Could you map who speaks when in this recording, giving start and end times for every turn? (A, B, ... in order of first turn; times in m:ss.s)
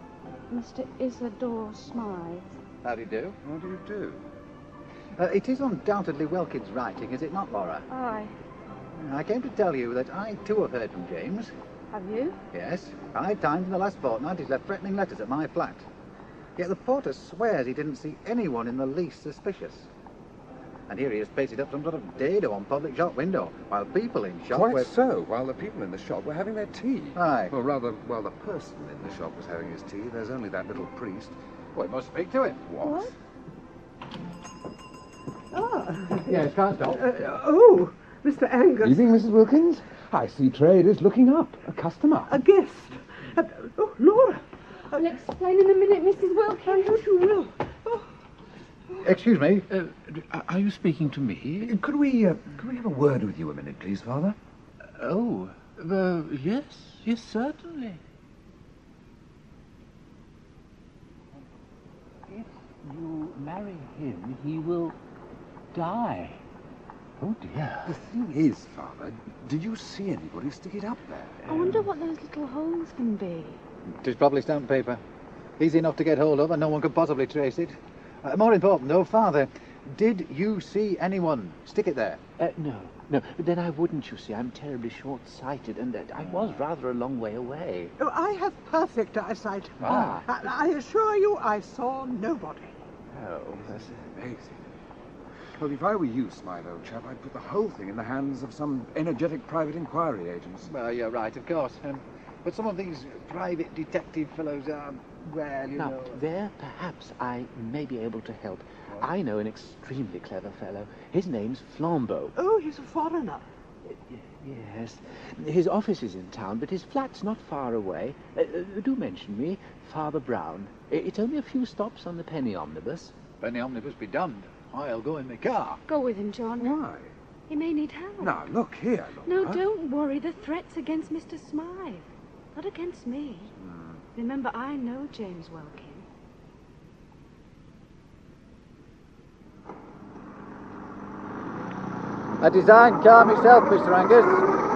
0:00.5-0:02.5 A
0:02.8-0:03.4 B
0:03.4-0:04.2 C
0:05.2-0:07.8 B
0:07.9-0:08.3 A
0:09.0-0:11.5 B
0:11.9-0:12.4 A
0:12.5-0:15.8 B
0:16.6-0:19.9 B
0:20.9-0:24.9 B
0:24.5-0:31.4 C
0:27.2-0:27.5 B
0:31.7-0:32.6 B
0:32.6-0:33.1 C
0:32.8-0:33.1 D
0:35.5-0:39.0 D
0:36.2-0:37.0 B
0:38.8-0:42.3 C
0:42.3-0:44.4 D
0:44.9-0:47.0 A
0:46.6-0:48.0 D
0:49.0-0:49.7 B
0:49.7-0:51.8 E
0:51.6-0:54.4 C
0:55.0-0:58.0 E
1:02.3-1:05.0 E
1:05.7-1:06.4 E
1:07.2-1:07.9 E
1:07.8-1:11.7 C
1:11.5-1:13.6 A
1:14.0-1:15.0 B
1:15.6-1:22.2 B
1:22.4-1:27.9 E
1:28.0-1:32.7 D
1:29.8-1:30.2 C
1:29.8-1:30.2 E
1:33.2-1:34.2 E
1:33.6-1:34.4 C
1:35.6-1:40.7 C
1:40.6-1:46.2 B
1:45.7-1:52.3 E
1:52.4-1:53.4 D
1:53.9-2:03.1 E
2:03.4-2:05.8 B
2:05.9-2:06.7 A
2:06.6-2:07.1 C
2:07.5-2:08.4 A
2:08.2-2:09.6 C
2:09.2-2:13.5 A
2:13.6-2:14.0 C
2:14.1-2:16.0 A
2:22.4-2:24.4 B